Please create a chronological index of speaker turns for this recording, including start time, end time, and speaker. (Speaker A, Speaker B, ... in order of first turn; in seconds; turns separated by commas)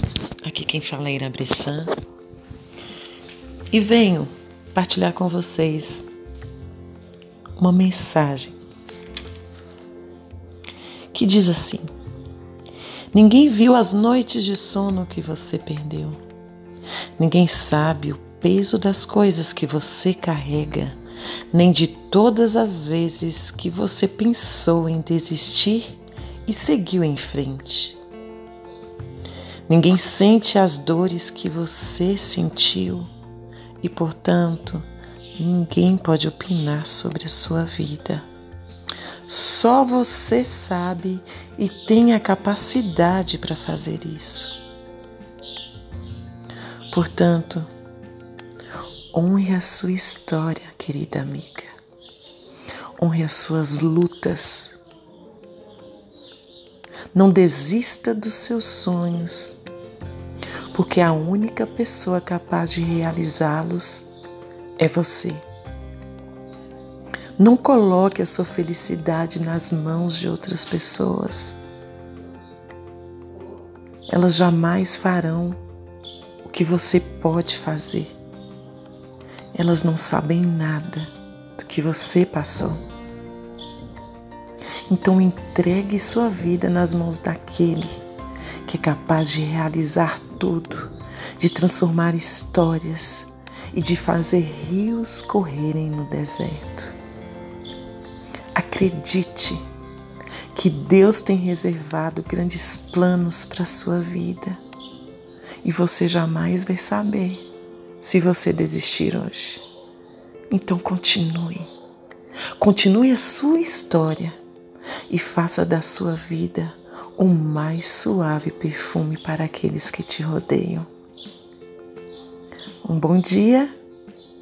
Speaker A: 0.4-1.9, Speaker A: 3.7-6.0, Speaker A: 7.6-8.6, Speaker A: 11.1-11.9, Speaker A: 13.1-16.2, Speaker A: 17.2-21.0, Speaker A: 21.5-28.0, Speaker A: 29.7-33.1, Speaker A: 33.8-38.3, Speaker A: 39.2-44.5, Speaker A: 46.9-47.7, Speaker A: 49.1-51.7, Speaker A: 53.0-54.8, Speaker A: 57.1-59.6, Speaker A: 60.7-64.1, Speaker A: 64.8-65.4, Speaker A: 67.4-71.6, Speaker A: 74.1-75.6, Speaker A: 76.4-78.1, Speaker A: 79.5-82.8, Speaker A: 84.9-88.0, Speaker A: 88.6-97.0, Speaker A: 98.5-99.6, Speaker A: 100.5-104.6, Speaker A: 105.6-107.4, Speaker A: 108.0-109.6, Speaker A: 110.5-111.7, Speaker A: 112.6-114.4, Speaker A: 115.1-120.9, Speaker A: 122.8-123.7